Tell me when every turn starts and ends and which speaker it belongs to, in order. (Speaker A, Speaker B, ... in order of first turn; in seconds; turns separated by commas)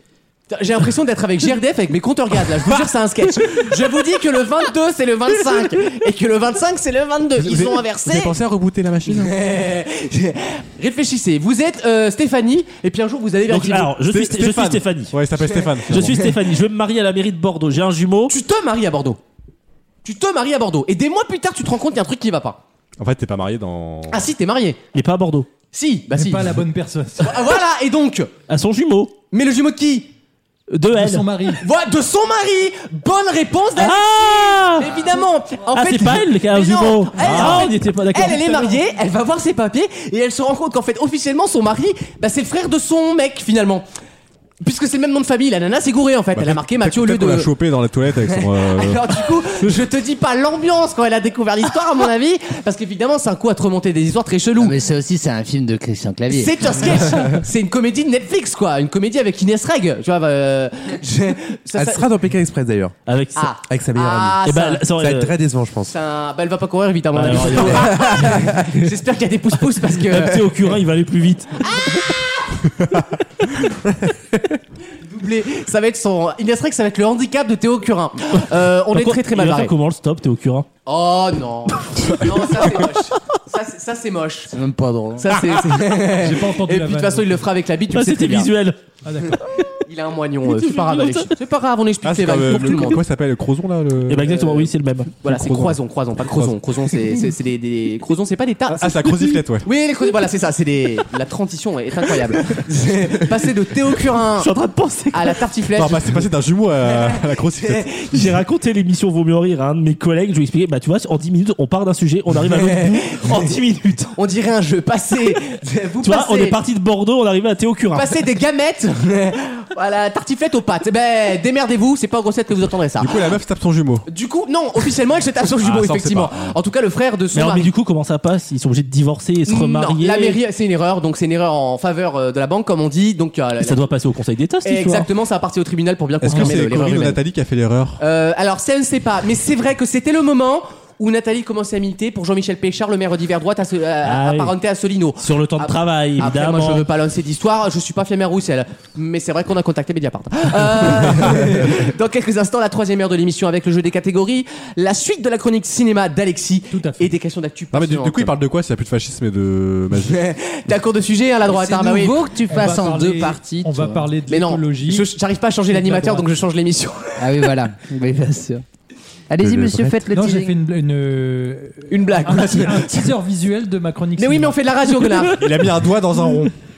Speaker A: 0.5-8.4, Speaker B: 3.4-3.7, Speaker C: 7.4-9.4, Speaker A: 9.1-13.9, Speaker B: 13.5-18.3, Speaker C: 14.0-16.4, Speaker A: 15.4-15.7, Speaker A: 18.3-19.2, Speaker A: 20.0-22.6, Speaker C: 23.0-24.3, Speaker A: 24.1-24.8, Speaker B: 24.9-25.5, Speaker A: 25.7-26.6, Speaker D: 26.1-27.4, Speaker A: 27.2-28.3, Speaker B: 28.5-29.1, Speaker A: 29.3-30.1, Speaker B: 30.7-31.2, Speaker D: 30.9-31.6, Speaker A: 31.6-43.9, Speaker B: 33.8-34.9, Speaker B: 35.7-38.8, Speaker C: 37.2-37.7, Speaker A: 44.6-47.5, Speaker C: 46.3-49.7, Speaker A: 48.2-54.8, Speaker E: 54.6-56.7, Speaker A: 56.3-62.0, Speaker F: 61.7-62.9, Speaker B: 63.1-63.5, Speaker A: 63.4-64.8, Speaker F: 63.6-65.9, Speaker B: 64.4-65.3, Speaker A: 65.9-70.5, Speaker B: 67.1-68.9, Speaker F: 67.4-68.4, Speaker B: 69.9-71.8, Speaker A: 71.6-72.2, Speaker A: 75.0-79.7, Speaker B: 78.4-80.7, Speaker A: 80.8-84.5, Speaker E: 84.5-85.4, Speaker A: 85.2-88.5, Speaker D: 86.1-87.4, Speaker B: 87.9-88.8, Speaker D: 89.0-89.4, Speaker A: 89.8-93.0, Speaker B: 90.5-91.3, Speaker C: 92.0-94.4, Speaker B: 94.1-95.1, Speaker A: 94.4-94.7, Speaker A: 95.2-104.5, Speaker C: 95.2-96.6, Speaker C: 98.7-99.7, Speaker B: 104.4-105.4, Speaker A: 105.1-106.2, Speaker C: 105.7-107.9, Speaker A: 106.8-108.2, Speaker B: 108.1-114.2, Speaker A: 112.4-113.5, Speaker A: 114.1-116.6, Speaker B: 116.0-118.2, Speaker A: 117.9-123.3, Speaker C: 123.0-124.1, Speaker A: 124.1-127.7, Speaker C: 125.6-126.5, Speaker B: 127.3-130.4, Speaker A: 129.5-133.9, Speaker B: 133.6-135.1, Speaker A: 134.6-137.2, Speaker C: 136.2-138.0, Speaker D: 136.3-136.6, Speaker A: 138.0-158.3, Speaker B: 144.0-144.5, Speaker B: 145.2-146.9, Speaker D: 156.7-157.1, Speaker C: 157.7-160.2, Speaker A: 159.9-162.3, Speaker E: 161.5-164.0, Speaker D: 162.5-165.1, Speaker A: 164.3-167.5, Speaker D: 165.7-166.3, Speaker E: 167.2-168.6, Speaker E: 169.3-170.6, Speaker C: 169.4-169.9, Speaker D: 170.1-174.6, Speaker A: 171.9-173.1, Speaker A: 174.2-175.5, Speaker C: 175.3-176.5